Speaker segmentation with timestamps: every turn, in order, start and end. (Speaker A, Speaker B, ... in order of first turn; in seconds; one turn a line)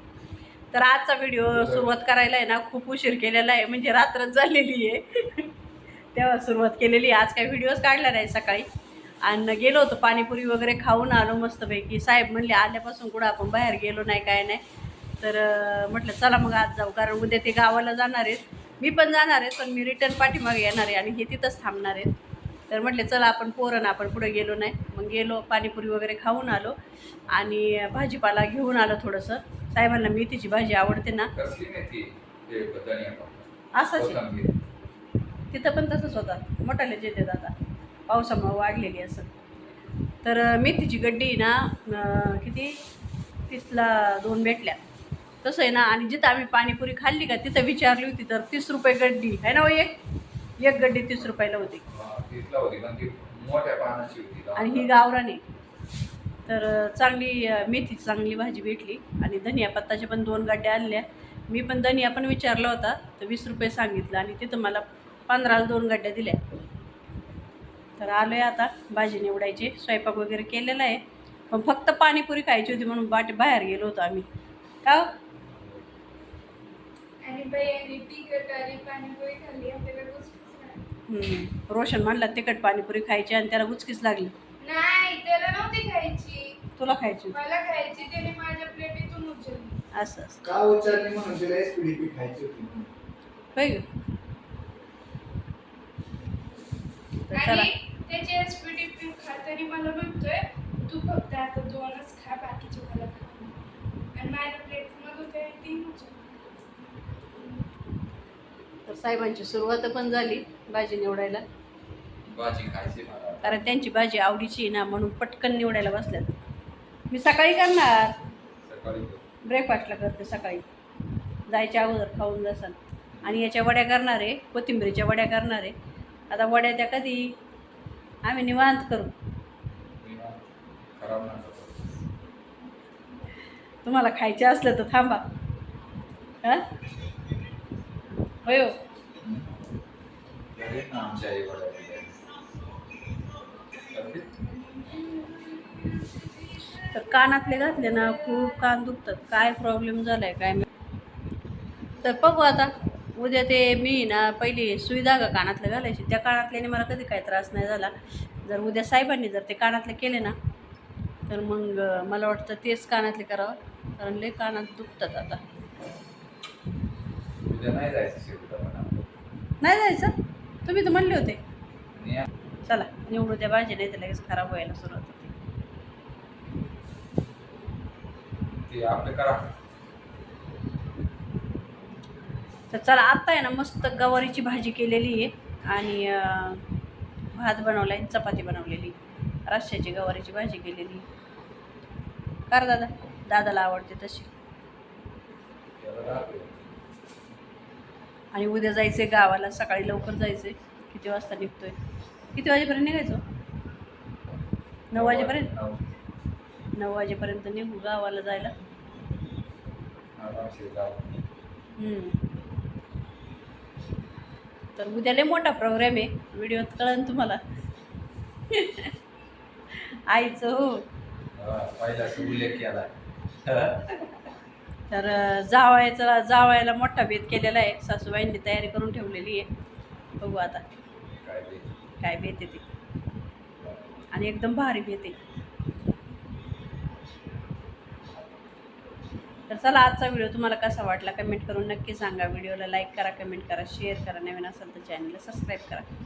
Speaker A: 0.7-5.5
Speaker B: 1.5-1.8
Speaker A: 6.1-8.7
Speaker A: 9.2-14.6
Speaker A: 15.2-22.1
Speaker A: 22.7-26.8
Speaker A: 27.3-31.3
Speaker B: 31.4-34.6
Speaker A: 33.7-34.2
Speaker A: 35.5-37.5
Speaker A: 38.1-39.3
Speaker A: 40.2-42.8
Speaker A: 43.5-44.8
Speaker A: 45.4-50.0
Speaker A: 50.6-51.8
Speaker B: 51.9-54.9
Speaker A: 54.6-55.4
Speaker A: 56.5-66.4
Speaker A: 68.0-74.3
Speaker A: 74.8-75.1
Speaker C: 77.2-80.9
Speaker A: 81.1-84.3
Speaker C: 84.6-86.6
Speaker A: 86.8-87.4
Speaker C: 87.3-89.8
Speaker A: 89.9-90.4
Speaker D: 90.4-92.9
Speaker A: 93.5-93.9
Speaker A: 97.3-97.7
Speaker C: 97.3-103.6
Speaker C: 104.1-106.2
Speaker C: 107.4-107.6
Speaker A: 108.9-111.4
Speaker B: 112.3-113.7
Speaker A: 113.4-116.3
Speaker A: 117.1-118.2
Speaker B: 118.7-119.2
Speaker A: 119.4-120.7
Speaker A: 121.5-125.7
Speaker B: 123.1-123.4
Speaker A: 126.3-127.4
Speaker A: 128.2-129.2
Speaker B: 130.0-130.4
Speaker B: 131.0-132.1
Speaker A: 133.8-135.2
Speaker A: 138.4-138.7
Speaker B: 139.2-139.5
Speaker B: 140.6-142.1
Speaker B: 143.9-144.3
Speaker C: 144.5-147.2
Speaker A: 146.9-150.7
Speaker C: 147.7-148.6
Speaker A: 152.0-157.9
Speaker A: 158.4-160.3
Speaker A: 161.3-165.4
Speaker B: 167.4-169.0
Speaker A: 169.6-171.4
Speaker B: 172.0-172.3
Speaker A: 172.7-175.3
Speaker B: 178.7-179.5
Speaker A: 182.7-186.7
Speaker A: 187.3-189.0
Speaker A: 189.5-191.0
Speaker A: 192.5-194.3
Speaker B: 195.8-196.6
Speaker A: 198.3-201.8
Speaker A: 202.3-203.2
Speaker A: 204.9-205.5
Speaker B: 204.9-205.8
Speaker A: 206.8-208.5
Speaker B: 210.2-211.2
Speaker A: 211.8-212.2
Speaker A: 214.8-217.4
Speaker A: 218.5-218.9
Speaker A: 219.7-220.8
Speaker B: 221.4-222.9
Speaker B: 223.4-224.1
Speaker A: 224.9-229.5
Speaker A: 230.2-230.6
Speaker B: 231.2-231.7
Speaker A: 232.0-232.6
Speaker A: 234.1-235.2
Speaker A: 239.5-245.9